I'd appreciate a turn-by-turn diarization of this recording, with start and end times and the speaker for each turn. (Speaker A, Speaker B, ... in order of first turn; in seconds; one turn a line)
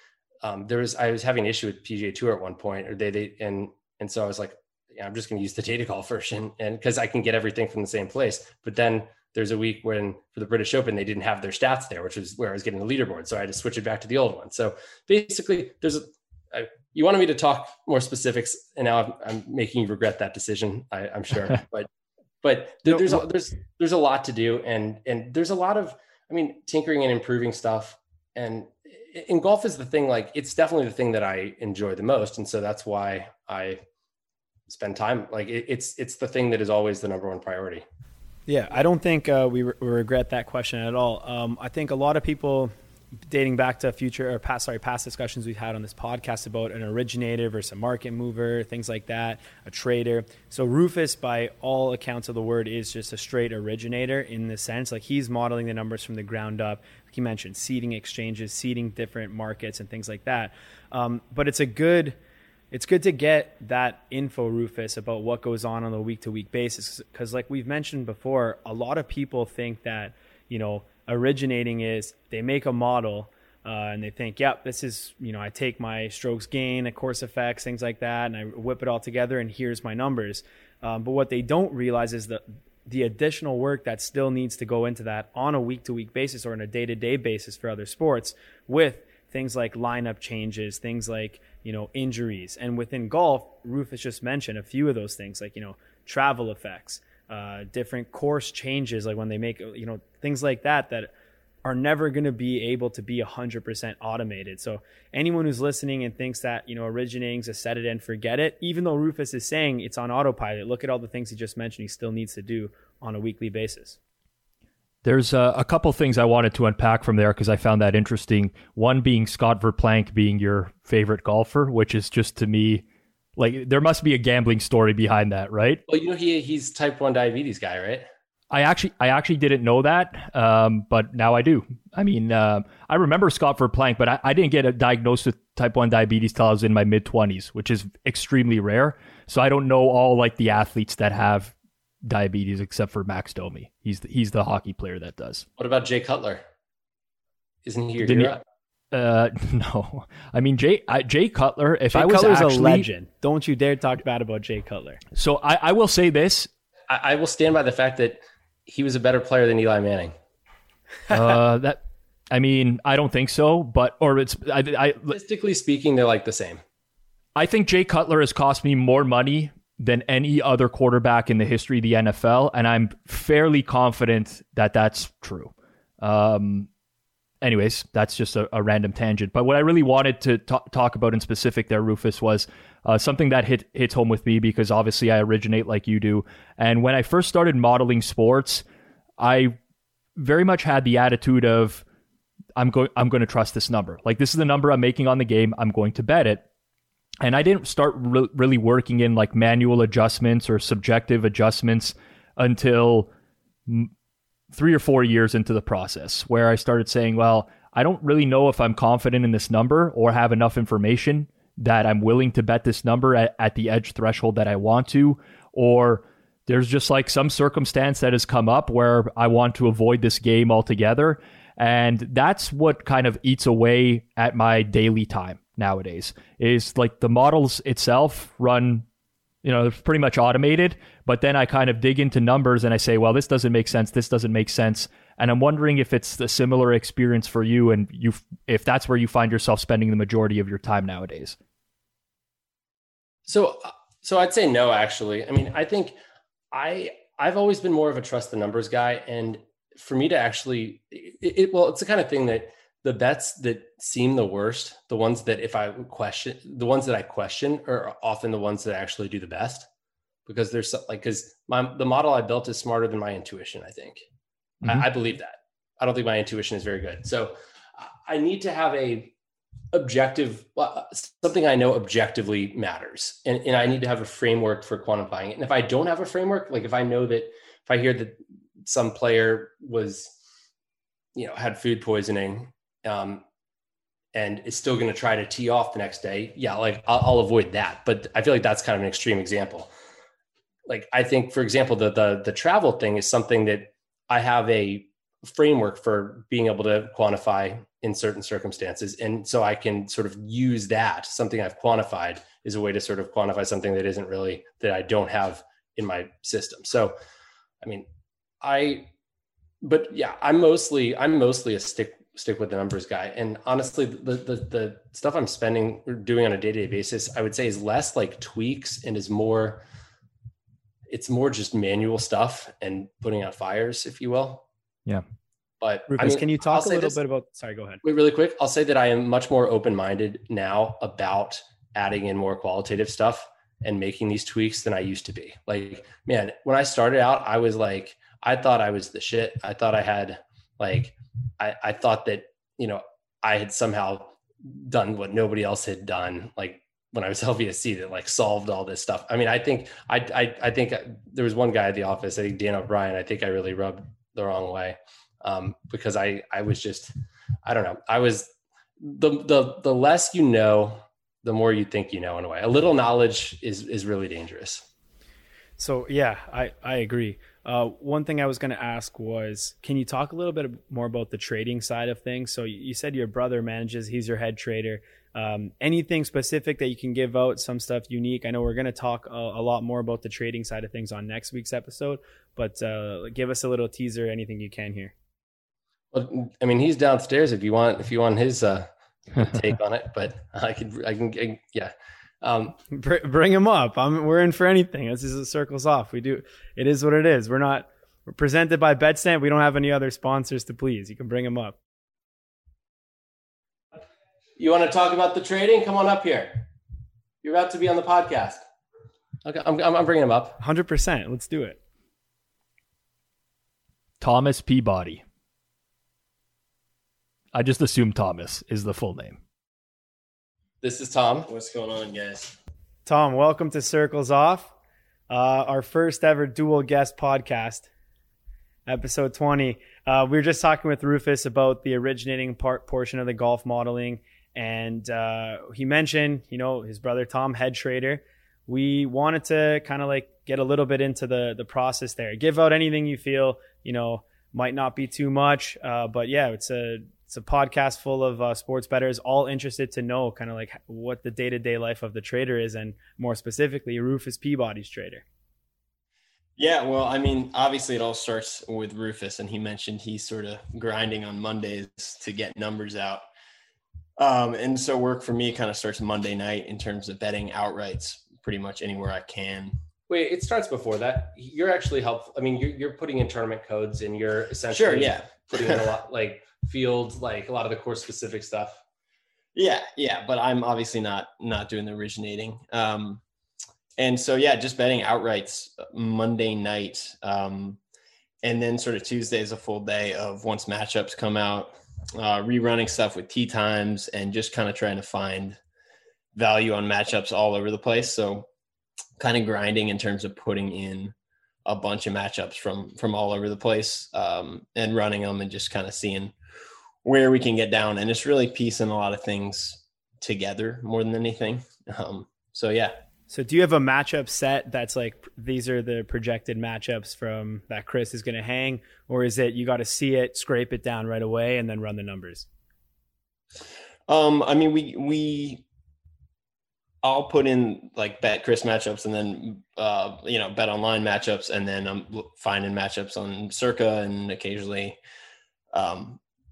Speaker A: 0.4-21.9
Speaker A: 22.4-33.8
Speaker A: 34.7-37.9
Speaker B: 38.5-42.7
Speaker B: 43.2-62.2
Speaker B: 62.7-101.1
Speaker B: 101.6-114.0
Speaker C: 115.0-122.8
Speaker C: 123.4-125.8
Speaker A: 125.9-128.1
Speaker C: 128.5-145.4
Speaker A: 145.6-146.4
Speaker A: 147.6-148.4
Speaker C: 148.0-148.4
Speaker C: 148.9-152.9
Speaker B: 151.9-155.0
Speaker C: 155.1-156.5
Speaker A: 156.9-160.1
Speaker C: 161.1-165.2
Speaker A: 165.1-166.6
Speaker C: 167.4-176.7
Speaker C: 177.4-188.6
Speaker C: 189.2-189.6
Speaker C: 190.2-191.8
Speaker C: 192.6-196.4
Speaker C: 197.2-203.1
Speaker C: 204.5-228.9
Speaker C: 229.4-241.4
Speaker A: 243.3-246.0
Speaker A: 246.5-259.7
Speaker A: 260.3-264.0
Speaker A: 264.6-269.1
Speaker A: 269.7-280.2
Speaker A: 281.1-283.2
Speaker A: 284.1-289.7
Speaker A: 290.7-306.9
Speaker A: 307.6-307.9
Speaker A: 308.4-308.9
Speaker A: 309.6-319.6
Speaker A: 320.9-324.5
Speaker A: 325.6-327.0
Speaker B: 325.9-327.8
Speaker A: 327.8-356.9
Speaker A: 357.4-364.7
Speaker B: 365.6-384.9
Speaker A: 385.9-392.6
Speaker B: 392.7-401.6
Speaker A: 404.4-406.5
Speaker A: 407.2-408.4
Speaker A: 409.2-410.4
Speaker B: 410.4-411.6
Speaker C: 414.0-415.0
Speaker C: 417.3-419.2
Speaker A: 420.6-421.3
Speaker D: 421.3-422.4
Speaker B: 422.9-424.5
Speaker B: 425.1-427.7
Speaker B: 428.7-455.0
Speaker D: 456.4-463.0
Speaker D: 464.0-469.6
Speaker A: 469.9-478.6
Speaker D: 474.5-475.7
Speaker D: 479.4-483.0
Speaker D: 483.8-487.6
Speaker D: 488.2-495.4
Speaker D: 496.1-498.3
Speaker D: 499.0-506.1
Speaker D: 506.8-512.8
Speaker B: 513.1-522.3
Speaker D: 523.9-525.4
Speaker D: 526.8-534.8
Speaker D: 535.5-536.0